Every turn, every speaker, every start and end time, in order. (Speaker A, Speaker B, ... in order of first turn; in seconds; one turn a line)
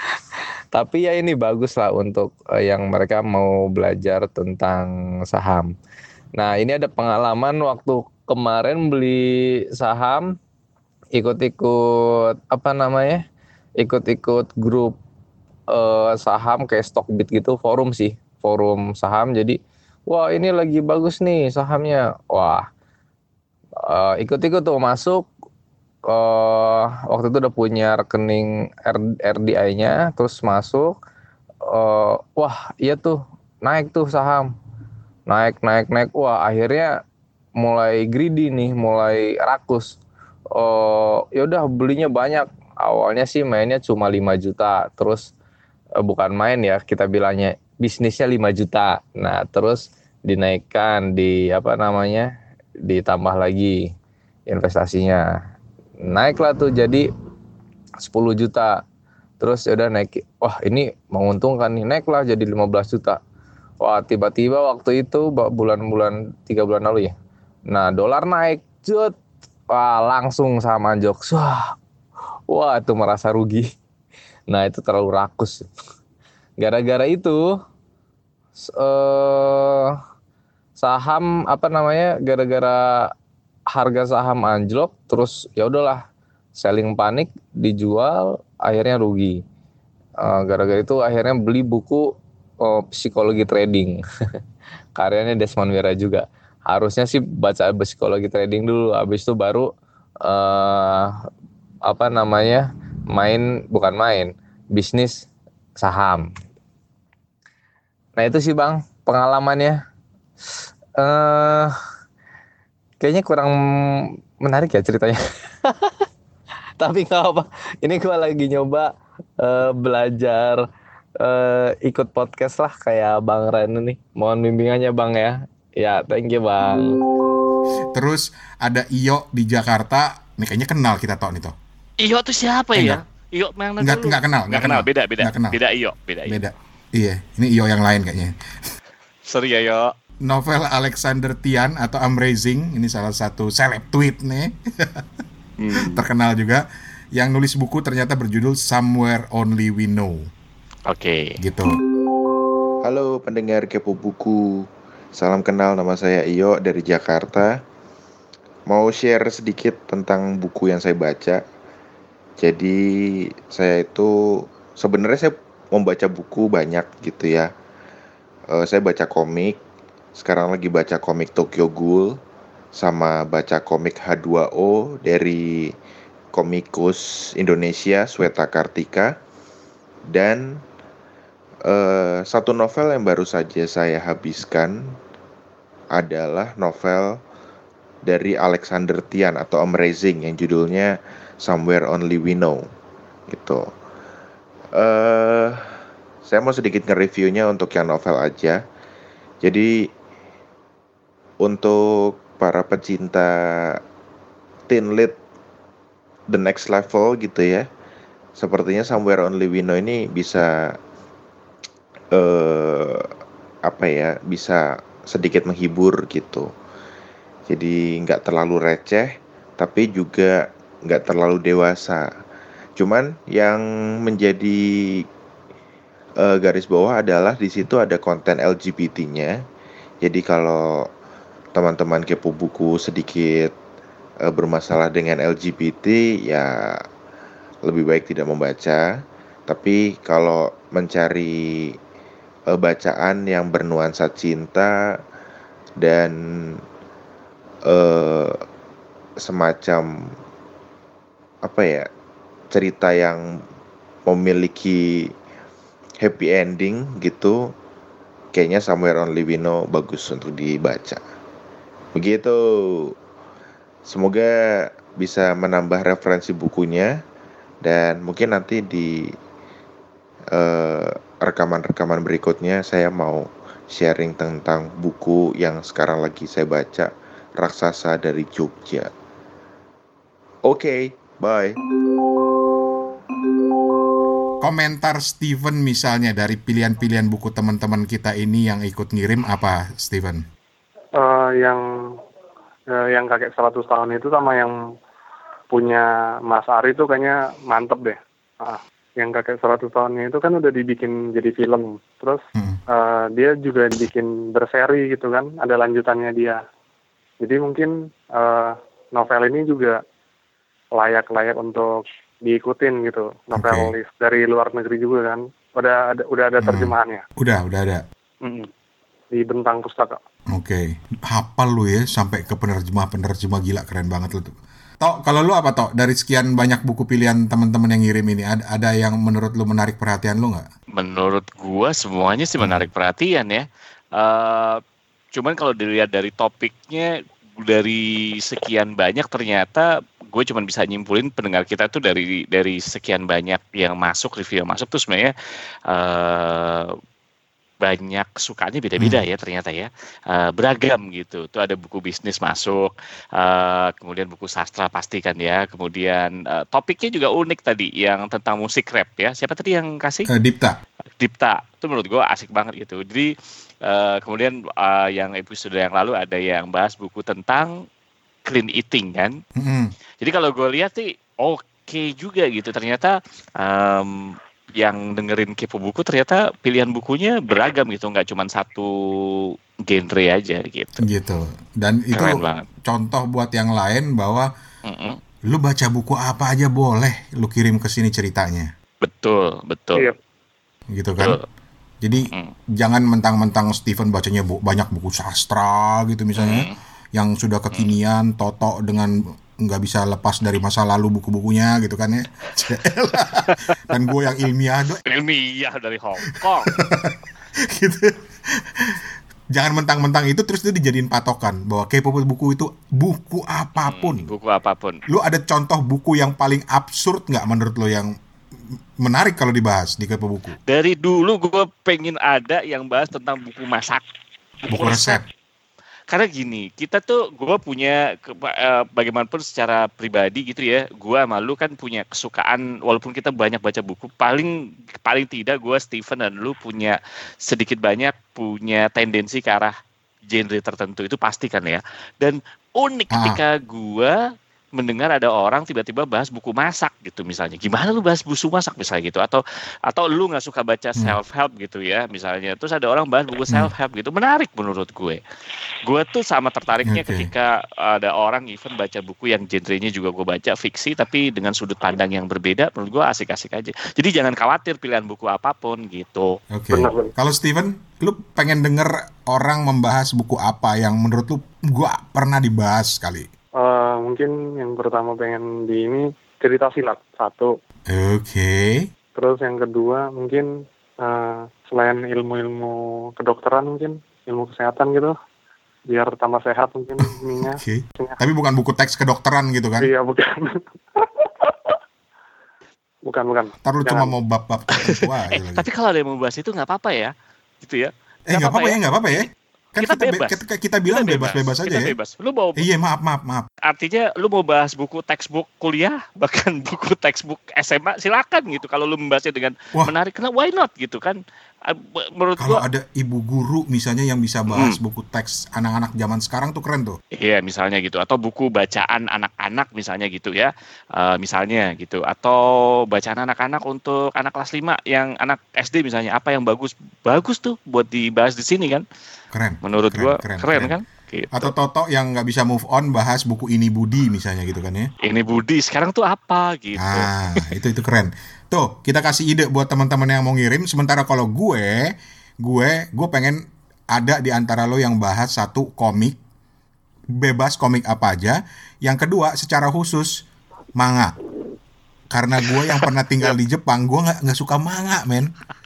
Speaker A: 0.8-5.7
Speaker A: 6.4-9.3
Speaker A: 9.8-10.3
Speaker A: 11.2-11.8
Speaker A: 12.5-13.2
Speaker A: 13.8-15.0
Speaker A: 15.7-19.6
Speaker A: 20.1-22.6
Speaker A: 23.9-25.3
Speaker A: 26.1-30.9
Speaker A: 31.7-34.5
Speaker A: 35.3-37.0
Speaker A: 37.6-40.0
Speaker A: 40.5-45.3
Speaker A: 46.0-52.3
Speaker A: 52.9-53.9
Speaker A: 54.5-55.2
Speaker A: 56.1-57.1
Speaker A: 58.0-58.8
Speaker A: 59.4-63.2
Speaker A: 63.8-67.1
Speaker A: 67.7-69.2
Speaker A: 69.7-71.7
Speaker A: 72.5-73.7
Speaker A: 74.5-75.7
Speaker A: 76.6-77.4
Speaker A: 78.8-80.0
Speaker A: 80.8-83.1
Speaker A: 83.7-86.0
Speaker A: 86.6-89.4
Speaker A: 90.2-92.1
Speaker A: 92.6-94.0
Speaker A: 95.0-99.7
Speaker A: 100.2-101.2
Speaker A: 101.9-105.3
Speaker A: 105.8-106.3
Speaker A: 108.2-109.8
Speaker A: 111.0-111.7
Speaker A: 113.0-116.0
Speaker A: 116.8-118.9
Speaker A: 119.4-120.6
Speaker A: 121.2-127.0
Speaker B: 127.9-131.5
Speaker C: 132.0-136.4
Speaker B: 132.8-133.0
Speaker B: 133.8-135.6
Speaker B: 136.3-138.3
Speaker C: 139.3-139.9
Speaker B: 140.2-145.0
Speaker C: 145.6-146.1
Speaker B: 145.8-146.6
Speaker B: 147.1-150.3
Speaker C: 150.9-151.4
Speaker B: 151.4-151.8
Speaker D: 152.8-157.6
Speaker D: 158.7-161.4
Speaker D: 162.4-167.5
Speaker D: 168.5-169.6
Speaker D: 170.2-172.1
Speaker D: 172.8-175.7
Speaker D: 176.3-179.1
Speaker D: 180.1-180.6
Speaker D: 181.7-184.9
Speaker D: 185.9-187.2
Speaker D: 188.1-192.6
Speaker D: 193.3-193.7
Speaker D: 194.8-195.7
Speaker D: 196.3-198.6
Speaker D: 199.4-199.9
Speaker D: 201.4-203.8
Speaker D: 204.7-205.2
Speaker D: 206.3-207.7
Speaker D: 208.4-210.8
Speaker D: 212.1-213.1
Speaker D: 213.7-216.5
Speaker D: 217.5-222.1
Speaker D: 222.8-225.1
Speaker D: 226.2-229.3
Speaker D: 230.0-230.9
Speaker D: 231.6-233.5
Speaker D: 234.2-236.8
Speaker D: 237.7-238.9
Speaker D: 239.5-241.8
Speaker D: 242.5-244.7
Speaker D: 245.8-246.6
Speaker D: 247.7-248.4
Speaker D: 249.2-249.9
Speaker D: 251.4-251.9
Speaker D: 252.5-253.3
Speaker D: 254.1-255.1
Speaker D: 256.0-257.5
Speaker D: 258.3-261.0
Speaker D: 262.0-262.9
Speaker D: 263.9-266.9
Speaker D: 267.6-269.1
Speaker D: 270.3-278.9
Speaker D: 280.5-281.6
Speaker B: 284.4-290.2
Speaker E: 291.0-291.6
Speaker E: 292.7-294.5
Speaker E: 295.5-302.2
Speaker E: 302.7-306.4
Speaker E: 307.2-309.8
Speaker E: 310.8-317.0
Speaker B: 313.3-313.7
Speaker B: 316.4-317.8
Speaker E: 319.1-320.0
Speaker B: 320.3-330.5
Speaker C: 330.8-333.5
Speaker B: 332.4-332.7
Speaker C: 334.0-334.6
Speaker C: 335.1-345.1
Speaker C: 345.7-346.8
Speaker C: 347.6-360.1
Speaker B: 360.1-360.6
Speaker C: 361.0-363.1
Speaker C: 363.6-367.5
Speaker C: 368.3-369.2
Speaker B: 369.4-369.7
Speaker C: 370.0-380.8
Speaker B: 380.8-384.3
Speaker C: 381.9-382.4
Speaker C: 384.7-385.0
Speaker B: 385.3-388.5
Speaker C: 388.8-389.9
Speaker B: 390.7-391.2
Speaker B: 391.8-404.8
Speaker C: 396.2-396.6
Speaker C: 404.9-406.5
Speaker B: 406.5-407.0
Speaker B: 407.5-408.0
Speaker B: 409.3-414.1
Speaker C: 413.6-414.8
Speaker B: 414.9-417.9
Speaker B: 418.8-420.4
Speaker C: 420.5-423.8
Speaker C: 424.5-425.0
Speaker B: 424.5-425.0
Speaker C: 425.9-439.5
Speaker C: 440.1-444.0
Speaker B: 442.9-443.2
Speaker C: 444.6-455.0
Speaker C: 455.6-466.2
Speaker B: 456.7-457.1
Speaker B: 466.3-473.1
Speaker E: 466.5-466.9
Speaker E: 473.4-477.3
Speaker B: 477.7-478.7
Speaker E: 479.0-480.3
Speaker E: 480.8-484.9
Speaker E: 485.7-488.0
Speaker B: 486.9-489.7
Speaker E: 489.6-491.6
Speaker E: 492.9-493.9
Speaker B: 493.4-495.5
Speaker C: 494.6-498.6
Speaker B: 498.1-501.8
Speaker C: 499.6-502.5
Speaker B: 502.4-503.3
Speaker C: 503.4-512.4
Speaker B: 512.2-516.8
Speaker C: 514.3-514.6
Speaker C: 517.0-528.6
Speaker B: 529.1-530.5
Speaker C: 529.4-531.3
Speaker B: 531.1-534.7
Speaker C: 534.8-536.9
Speaker B: 536.6-546.0
Speaker B: 547.0-550.0
Speaker B: 550.6-550.9
Speaker B: 551.9-555.1